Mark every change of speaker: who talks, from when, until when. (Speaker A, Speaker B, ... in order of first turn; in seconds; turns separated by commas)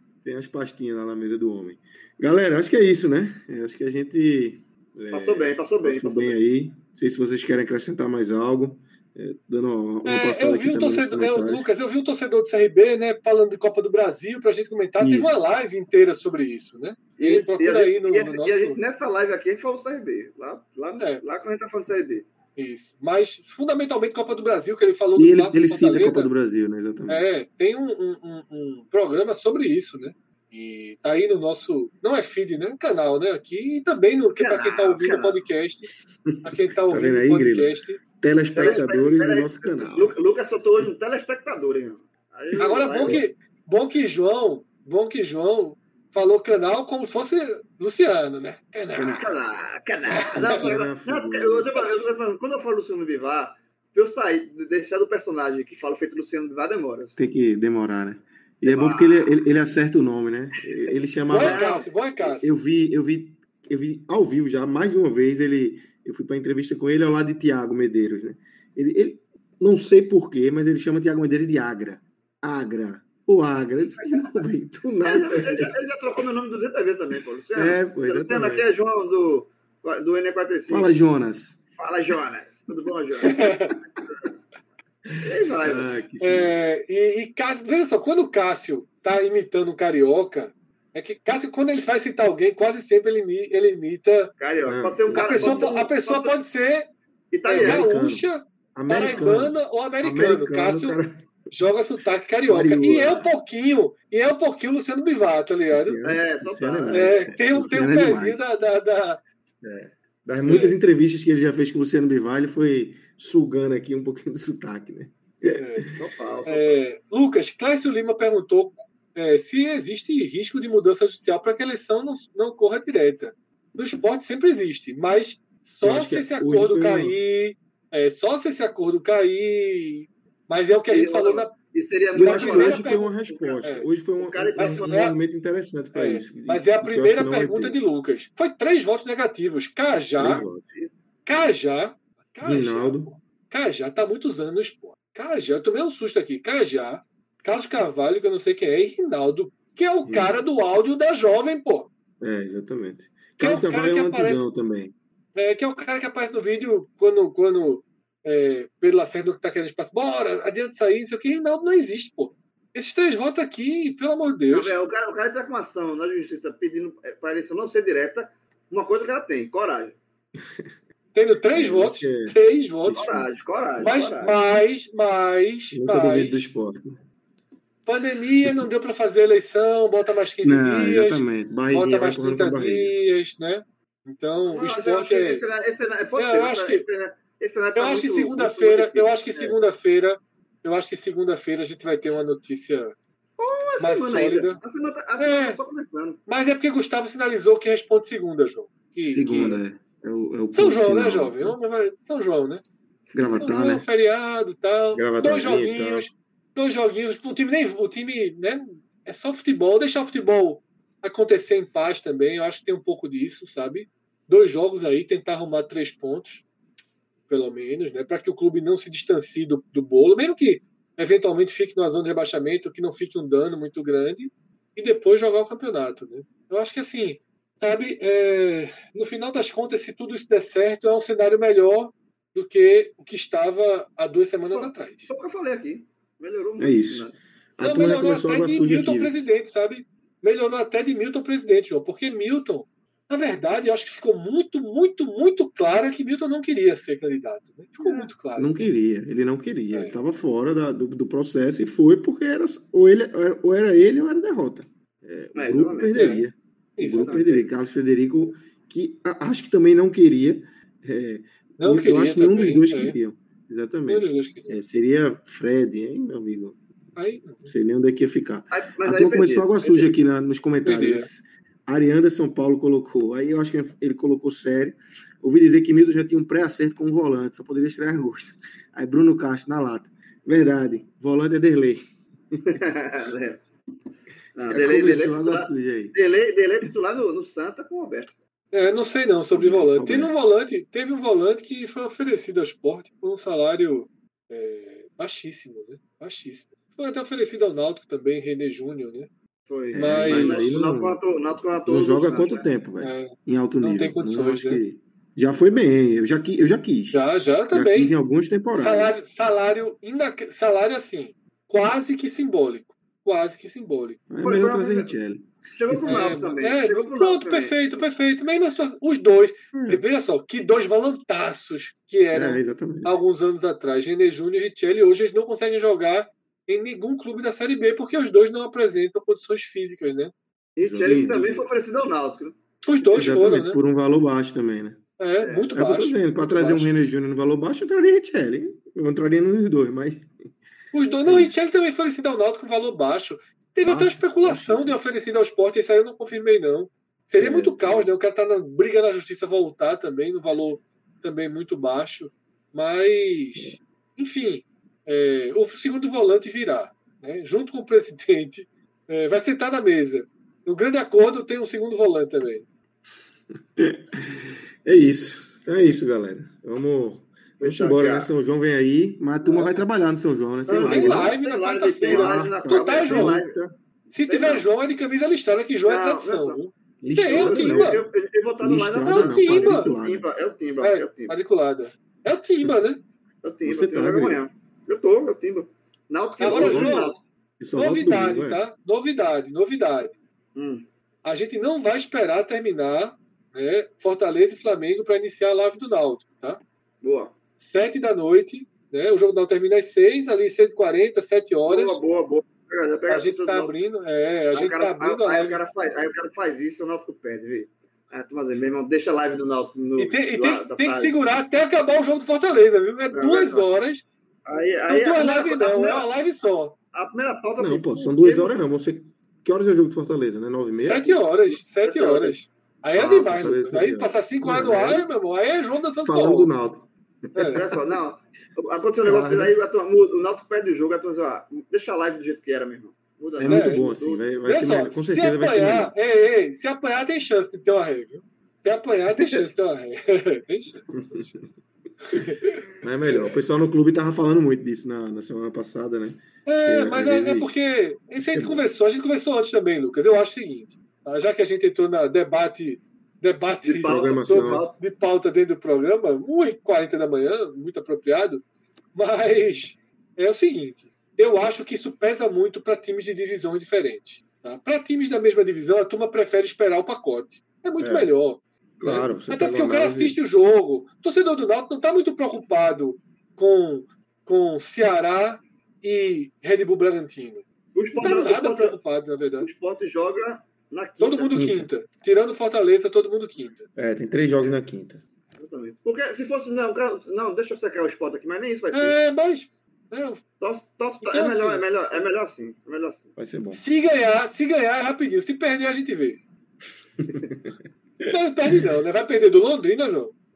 Speaker A: 0.2-11.7, Speaker B: 5.1-6.4, Speaker C: 10.1-18.8, Speaker A: 15.0-15.4, Speaker B: 17.2-22.3, Speaker C: 21.0-21.2, Speaker C: 22.6-26.3, Speaker A: 25.2-27.2, Speaker C: 27.1-35.9, Speaker B: 34.4-35.4, Speaker A: 36.3-40.1, Speaker C: 36.4-38.0, Speaker B: 38.5-43.2, Speaker C: 42.6-49.3, Speaker A: 49.0-49.3, Speaker B: 49.1-57.2, Speaker C: 50.1-50.7, Speaker A: 50.4-51.7, Speaker A: 57.2-75.7, Speaker B: 58.7-59.3, Speaker B: 60.9-61.9, Speaker C: 61.3-62.5, Speaker B: 75.0-81.0, Speaker A: 77.5-78.7, Speaker A: 80.7-81.6, Speaker B: 81.8-83.5, Speaker C: 83.2-83.8, Speaker B: 85.2-85.9, Speaker A: 85.7-86.5, Speaker C: 86.2-94.3, Speaker B: 94.4-96.3, Speaker A: 94.7-95.8, Speaker C: 95.1-96.9, Speaker B: 97.3-97.9, Speaker C: 97.5-101.0, Speaker A: 97.6-101.1, Speaker C: 101.5-106.0, Speaker A: 102.5-103.3, Speaker A: 105.7-108.4, Speaker B: 106.0-107.3, Speaker C: 106.9-109.2, Speaker A: 109.6-115.8, Speaker C: 110.5-110.8, Speaker C: 115.6-115.9, Speaker B: 115.9-116.8, Speaker C: 116.5-131.5, Speaker A: 125.8-127.2, Speaker B: 130.9-133.6, Speaker C: 132.2-133.9, Speaker A: 132.2-137.8, Speaker B: 134.2-134.9, Speaker C: 134.6-135.2, Speaker C: 135.9-140.4, Speaker A: 140.2-140.6, Speaker C: 141.3-151.9, Speaker A: 142.4-143.1, Speaker A: 150.1-150.4, Speaker A: 152.2-154.9, Speaker C: 153.4-154.4, Speaker C: 155.4-164.8, Speaker B: 164.5-170.0, Speaker C: 171.1-173.1, Speaker A: 171.5-172.3, Speaker A: 172.8-173.4, Speaker B: 172.9-174.4, Speaker C: 173.8-176.5, Speaker A: 175.7-177.0, Speaker C: 177.9-185.4, Speaker A: 180.4-182.9, Speaker B: 184.5-189.6, Speaker C: 186.2-186.8, Speaker C: 187.8-192.9, Speaker B: 193.4-196.2, Speaker C: 193.8-194.6, Speaker C: 195.2-195.6, Speaker C: 196.3-199.6, Speaker A: 199.0-201.6, Speaker C: 200.5-202.6, Speaker A: 203.1-203.8, Speaker C: 203.3-216.4, Speaker A: 204.9-206.1, Speaker C: 217.3-235.1, Speaker B: 234.5-237.2, Speaker A: 236.6-239.3, Speaker C: 237.6-248.7, Speaker B: 247.8-248.1, Speaker A: 248.4-266.6, Speaker C: 249.7-250.0, Speaker B: 255.3-256.1, Speaker C: 255.9-256.3, Speaker C: 256.8-257.4, Speaker B: 256.9-257.2, Speaker C: 261.6-263.0, Speaker C: 263.9-264.6, Speaker C: 267.0-267.5, Speaker A: 267.5-281.8, Speaker B: 268.5-269.9, Speaker C: 270.6-271.1, Speaker B: 282.5-283.4, Speaker B: 284.4-288.1, Speaker A: 284.4-285.9, Speaker C: 288.5-299.1, Speaker A: 289.3-290.1, Speaker B: 299.5-302.5, Speaker A: 299.7-301.0, Speaker C: 299.7-300.6, Speaker A: 301.7-309.0, Speaker C: 302.8-304.6, Speaker C: 306.9-307.9, Speaker C: 308.5-314.1, Speaker A: 314.1-315.9, Speaker B: 314.2-314.9, Speaker B: 315.6-317.9, Speaker C: 315.8-330.1, Speaker A: 322.1-323.0, Speaker B: 330.6-333.1, Speaker A: 330.6-331.5, Speaker C: 332.6-333.6, Speaker A: 332.9-334.8, Speaker C: 335.0-336.7, Speaker B: 335.2-335.6, Speaker A: 335.6-340.1, Speaker C: 340.7-362.4, Speaker A: 341.1-341.4, Speaker A: 343.6-344.8, Speaker A: 347.2-347.9, Speaker A: 363.6-371.2, Speaker B: 367.4-368.1, Speaker B: 369.2-369.5, Speaker B: 370.5-373.3, Speaker C: 370.5-373.2, Speaker A: 371.9-373.5, Speaker C: 373.9-377.8, Speaker B: 374.1-374.5, Speaker B: 375.7-376.4, Speaker A: 376.8-377.9, Speaker B: 377.1-381.1, Speaker A: 378.4-380.1, Speaker C: 378.9-379.7, Speaker C: 380.6-382.8, Speaker A: 382.1-382.6, Speaker B: 383.2-387.0, Speaker A: 383.4-384.2, Speaker C: 386.2-387.0, Speaker A: 386.3-386.9, Speaker A: 387.4-388.4, Speaker C: 387.6-390.0, Speaker B: 390.4-390.6, Speaker C: 391.1-396.4, Speaker B: 396.8-397.2, Speaker C: 397.4-401.8, Speaker B: 401.5-403.5, Speaker C: 402.9-405.4, Speaker B: 404.3-410.9, Speaker C: 409.8-413.9, Speaker B: 412.9-413.5, Speaker B: 414.3-415.9, Speaker C: 414.7-416.6, Speaker B: 416.7-418.3, Speaker A: 417.4-421.0, Speaker C: 420.6-426.3, Speaker B: 421.4-422.2, Speaker A: 422.7-424.9, Speaker A: 425.8-427.4, Speaker C: 427.1-427.4, Speaker B: 427.3-434.2, Speaker A: 428.8-429.4, Speaker A: 433.2-435.7, Speaker C: 433.3-433.7, Speaker C: 434.2-441.1, Speaker A: 440.8-441.2, Speaker C: 441.8-443.2, Speaker A: 442.6-447.4, Speaker C: 446.3-477.2, Speaker A: 448.0-448.4, Speaker B: 453.4-454.4, Speaker A: 453.6-454.5, Speaker A: 467.6-467.9, Speaker A: 468.6-470.0, Speaker B: 477.6-478.6, Speaker C: 477.8-479.3, Speaker A: 477.8-478.1, Speaker B: 479.2-481.3, Speaker C: 480.8-483.5, Speaker A: 481.1-481.5, Speaker A: 483.6-484.8, Speaker B: 485.2-488.8, Speaker C: 488.5-490.0, Speaker B: 490.2-493.0, Speaker C: 490.9-491.4, Speaker A: 493.0-493.4, Speaker C: 493.3-496.0, Speaker A: 496.8-497.3, Speaker C: 497.8-499.9, Speaker A: 497.9-498.5